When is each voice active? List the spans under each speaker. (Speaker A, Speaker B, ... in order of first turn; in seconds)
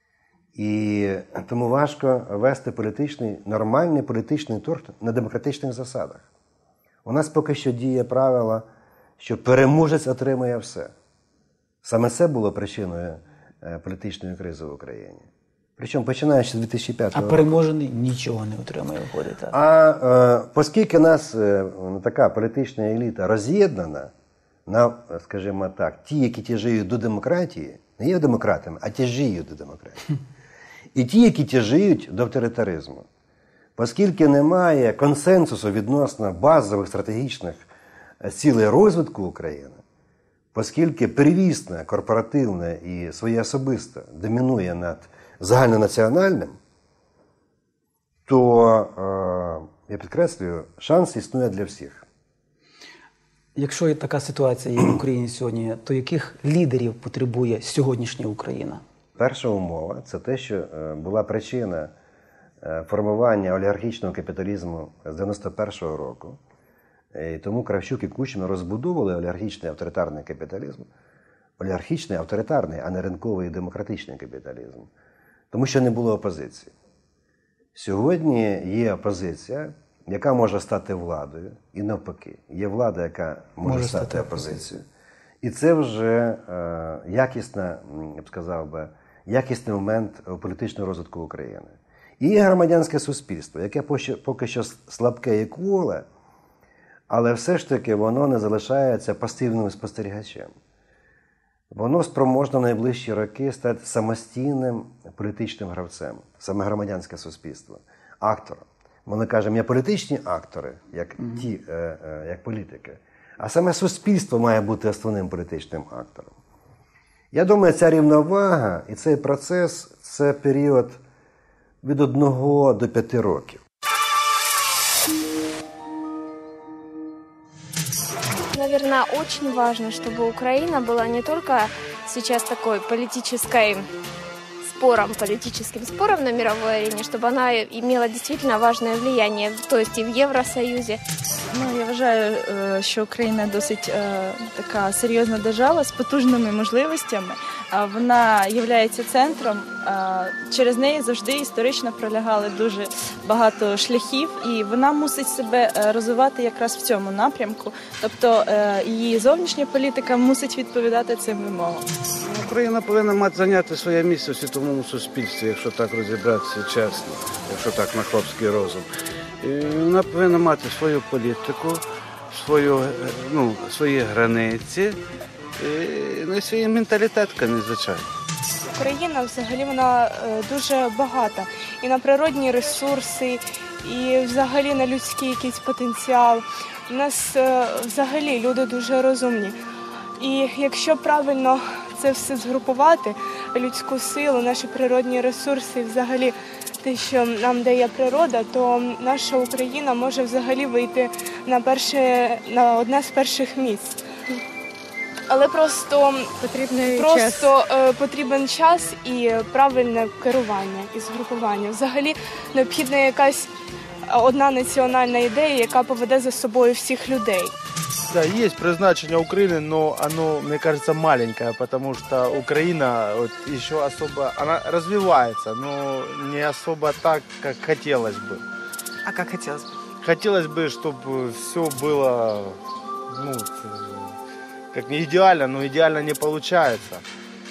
Speaker A: 0.5-6.3, 7.0-8.7, 9.2-10.9, 11.8-17.5, 19.5-24.1, 24.6-30.0, 30.9-33.1, 33.8-37.7, 38.2-39.8, 40.5-46.6, 48.2-52.0, 59.1-61.9, 62.6-66.4, 67.1-70.9, 71.6-74.9, 75.5-76.7, 77.7-84.8, 85.4-96.0, 97.1-100.5, 101.7-116.3, 117.3-121.0, 121.8-123.6
Speaker B: 17.1-19.5, 53.5-58.8, 83.6-84.6
Speaker C: 128.5-133.9, 134.6-141.0
Speaker D: 141.5-161.9, 206.4-207.5
Speaker E: 162.2-168.9, 169.4-175.0, 175.6-178.1
Speaker F: 178.7-189.6, 190.2-204.0, 205.3-206.3, 206.9-213.5, 214.1-217.5
Speaker G: 218.1-228.4, 230.0-234.2, 234.7-237.0